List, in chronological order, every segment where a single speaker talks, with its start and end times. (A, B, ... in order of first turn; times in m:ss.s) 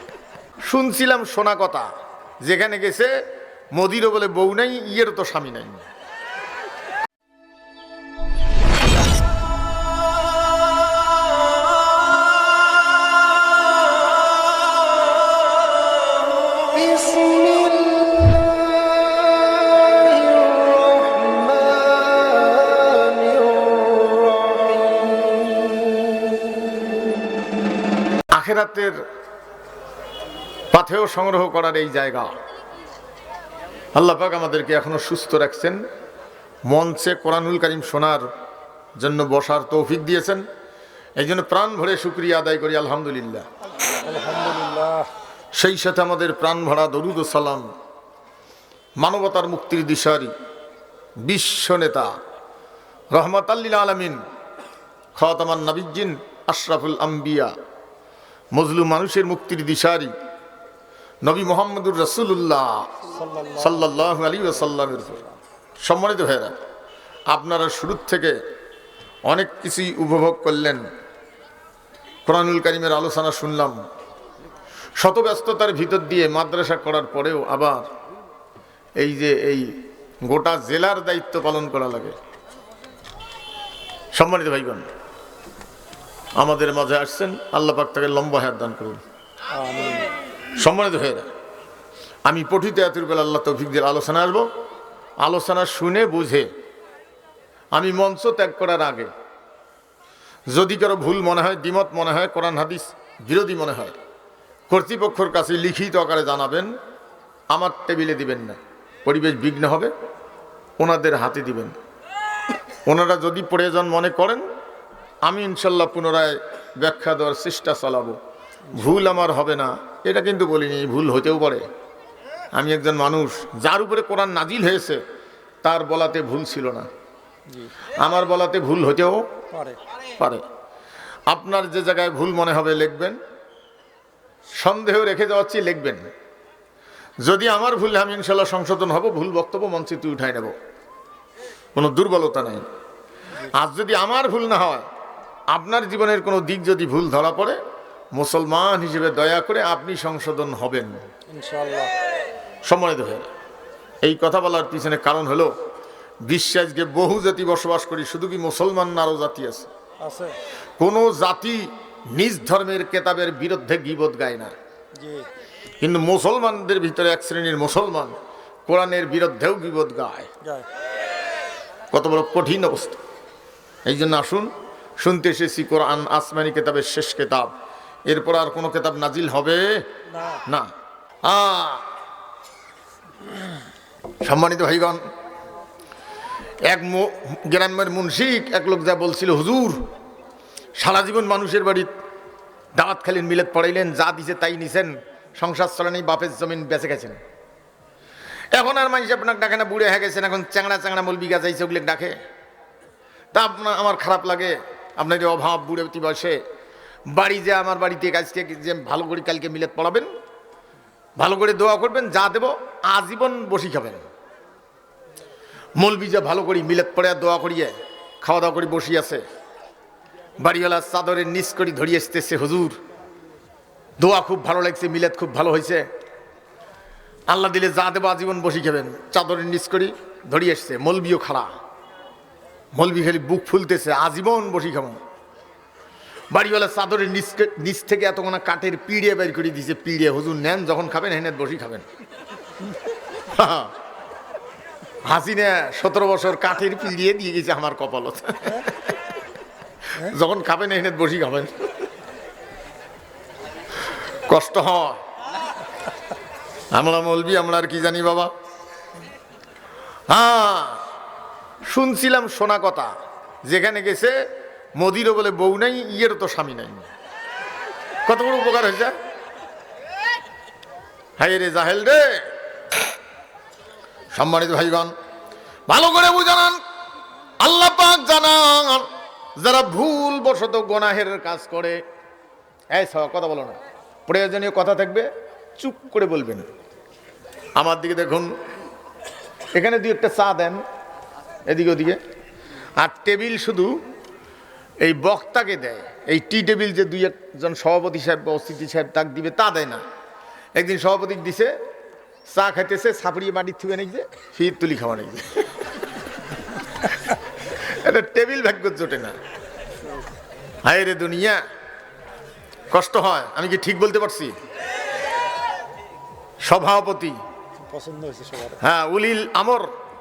0:00.6-0:01.9 A
0:02.4-0:03.2 A
0:03.8-0:05.8 A
0:17.1-0:17.5 B
0:28.3-0:29.0 A
0:30.7-0:32.3 A
0:34.0-0:35.8 A
0:36.7-0:38.3 A
0:39.0-0:40.4 A
0:41.2-0:43.4 A
0:44.0-0:45.1 B
0:45.6-0:47.7 A
0:49.0-0:50.3 A
0:51.2-0:52.1 A
0:53.1-0:54.2 A
0:55.2-0:57.5 A
0:58.6-1:00.1 A
1:01.2-1:03.0 A
1:03.1-1:04.5 B
1:03.6-1:05.2 A
1:05.1-1:05.4 B
1:05.8-1:06.6 A
1:07.3-1:08.4 A
1:09.3-1:10.8 A
1:12.3-1:13.8 A
1:15.0-1:17.8 A
1:19.0-1:22.2 A
1:24.2-1:24.9 A
1:26.4-1:29.0 A
1:29.5-1:30.1 B
1:30.6-1:31.3 A
1:32.2-1:34.5 A
1:35.2-1:36.5 A
1:37.8-1:39.1 A
1:40.5-1:44.0 A
1:44.7-1:46.7 A
1:47.5-1:49.9 A
1:50.8-1:51.7 A
1:52.9-1:54.4 A
1:55.3-1:58.2 A
1:58.7-1:59.0 B
1:58.8-2:01.6 A
2:02.6-2:05.0 A
2:05.6-2:06.9 A
2:08.0-2:09.2 A
2:09.5-2:09.8 B
2:10.2-2:10.4 A
2:11.3-2:13.2 A
2:14.6-2:16.0 A
2:17.2-2:20.5 A
2:21.8-2:22.6 A
2:23.5-2:24.9 A
2:25.5-2:27.6 A
2:28.2-2:31.0 A
2:31.3-2:32.0 B
2:32.6-2:33.3 A
2:34.0-2:35.5 A
2:36.2-2:39.7 A
2:40.0-2:40.4 B
2:40.8-2:44.5 A
2:45.0-2:45.3 B
2:45.8-2:48.2 A
2:48.7-2:50.3 A
2:51.9-2:53.0 A
2:53.9-2:57.5 A
2:58.1-2:59.8 A
3:00.1-3:00.4 B
3:00.4-3:00.7 A
3:01.2-3:01.9 A
3:04.2-3:05.0 A
3:06.7-3:09.8 A
3:10.8-3:11.9 A
3:12.8-3:17.2 A
3:18.6-3:22.2 A
3:23.3-3:26.4 A
3:27.1-3:30.1 A
3:31.2-3:34.1 A
3:35.8-3:39.2 A
3:40.4-3:42.8 A
3:44.0-3:45.9 A
3:47.3-3:51.5 A
3:52.8-3:55.0 A
3:56.3-4:01.9 A
4:03.3-4:03.7 A
4:05.0-4:08.7 A
4:09.9-4:11.6 A
4:14.2-4:15.0 A
4:16.7-4:18.3 A
4:20.1-4:20.8 A
4:21.7-4:22.9 A
4:23.4-4:24.2 A
4:24.8-4:26.9 A
4:28.1-4:28.9 A
4:31.2-4:32.3 A
4:34.1-4:34.9 A
4:35.7-4:36.6 A
4:37.4-4:41.8 A
4:42.7-4:46.5 A
4:47.6-4:48.3 A
4:49.5-4:50.6 A
4:51.5-4:52.0 A
4:52.8-4:53.8 A
4:54.8-4:59.8 A
5:00.6-5:01.5 A
5:02.3-5:05.3 A
5:07.5-5:09.2 A
5:10.6-5:11.4 A
5:12.7-5:14.4 A
5:16.4-5:17.2 A
5:17.6-5:18.6 B
5:18.6-5:19.7 A